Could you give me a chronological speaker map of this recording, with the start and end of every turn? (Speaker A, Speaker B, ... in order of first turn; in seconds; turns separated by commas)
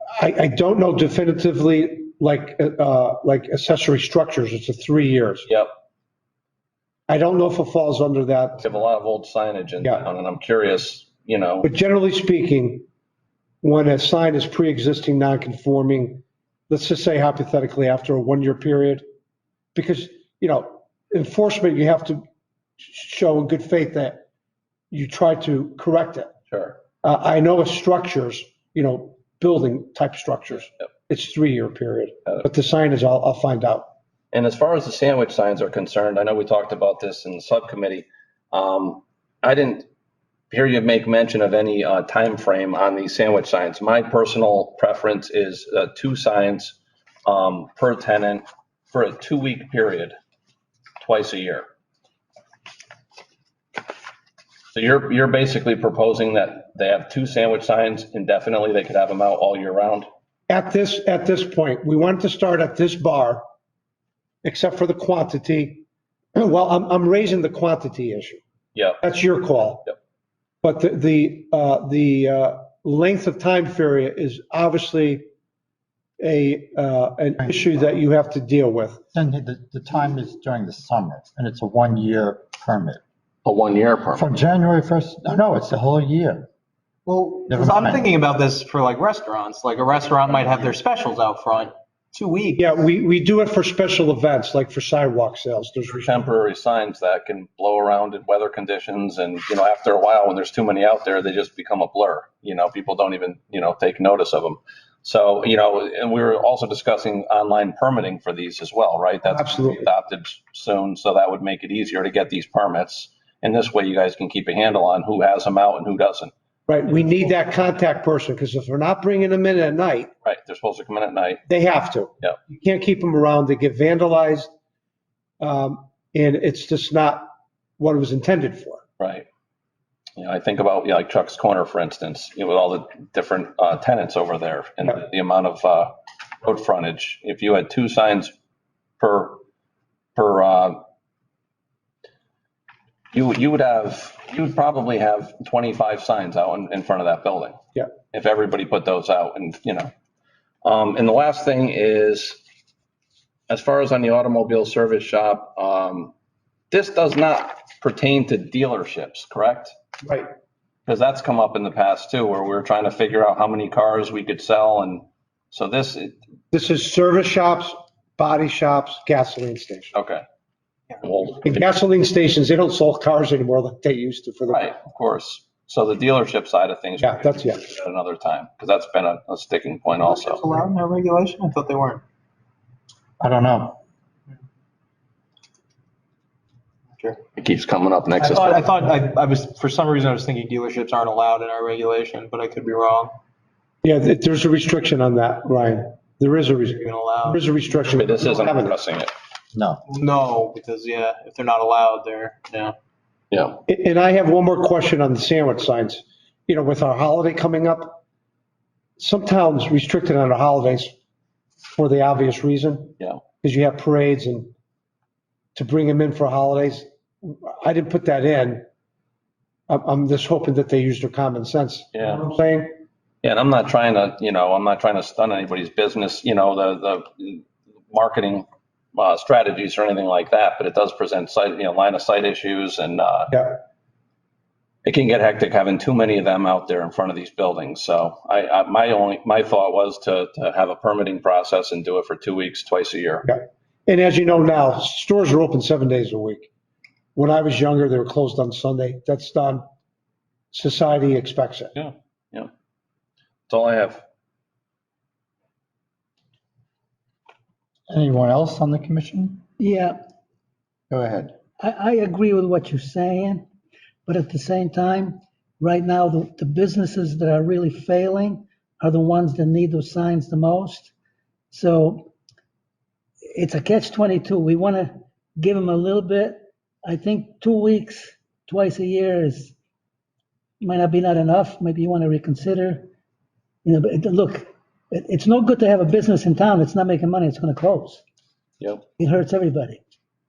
Speaker A: 0.1-5.5, Speaker A: 7.1-8.6, Speaker B: 8.6-11.7, Speaker A: 11.6-12.8, Speaker A: 13.6-19.0, Speaker A: 19.7-22.2, Speaker A: 22.8-24.2, Speaker A: 24.9-26.3, Speaker B: 26.5-26.8, Speaker A: 27.0-33.9, Speaker B: 34.3-39.9, Speaker B: 40.5-50.1, Speaker B: 51.0-51.7, Speaker B: 54.7-60.1, Speaker A: 60.5-63.4, Speaker A: 64.4-65.8, Speaker A: 66.3-68.4, Speaker B: 68.7-69.0, Speaker A: 69.0-69.8, Speaker A: 70.6-75.2, Speaker A: 76.2-79.0, Speaker C: 77.4-77.7, Speaker C: 79.1-83.0, Speaker B: 83.4-84.2, Speaker C: 84.1-86.5, Speaker D: 87.0-92.7, Speaker C: 87.5-88.1, Speaker A: 92.6-96.1, Speaker B: 95.9-116.3, Speaker A: 109.2-109.9, Speaker A: 116.7-120.1, Speaker B: 120.2-121.4, Speaker A: 121.5-124.5, Speaker A: 125.4-127.3, Speaker A: 127.8-128.8, Speaker B: 129.0-129.3, Speaker B: 130.2-138.3, Speaker B: 139.0-139.4, Speaker B: 140.2-140.8, Speaker B: 143.1-147.6, Speaker B: 148.1-149.9, Speaker B: 150.6-152.4, Speaker B: 153.5-156.1, Speaker B: 156.7-159.7, Speaker A: 160.0-160.3, Speaker B: 160.9-166.2, Speaker A: 166.5-169.9, Speaker B: 169.9-170.2, Speaker B: 171.0-171.6, Speaker A: 171.4-174.7, Speaker B: 174.5-180.4, Speaker A: 177.0-177.6, Speaker D: 180.0-182.0, Speaker C: 183.2-183.8, Speaker B: 187.4-188.7, Speaker D: 188.2-193.2, Speaker A: 193.8-198.8, Speaker D: 196.8-197.5, Speaker B: 197.9-199.1, Speaker C: 199.5-199.8, Speaker D: 199.9-202.7, Speaker B: 203.3-203.6, Speaker A: 203.7-208.0, Speaker A: 209.0-210.9, Speaker A: 211.7-214.5, Speaker A: 215.5-218.6, Speaker A: 219.7-222.7, Speaker B: 221.9-222.2, Speaker B: 223.2-233.5, Speaker A: 233.3-233.6, Speaker B: 234.8-243.3, Speaker A: 243.2-246.5, Speaker A: 247.1-249.6, Speaker A: 250.5-251.7, Speaker B: 251.7-252.5, Speaker B: 253.5-254.0, Speaker C: 257.9-259.4, Speaker E: 259.6-260.0, Speaker C: 260.9-261.3, Speaker E: 261.6-263.5, Speaker E: 264.1-270.9, Speaker E: 271.5-272.1, Speaker E: 273.3-279.5, Speaker E: 280.6-282.9, Speaker E: 283.6-288.0, Speaker E: 289.0-289.8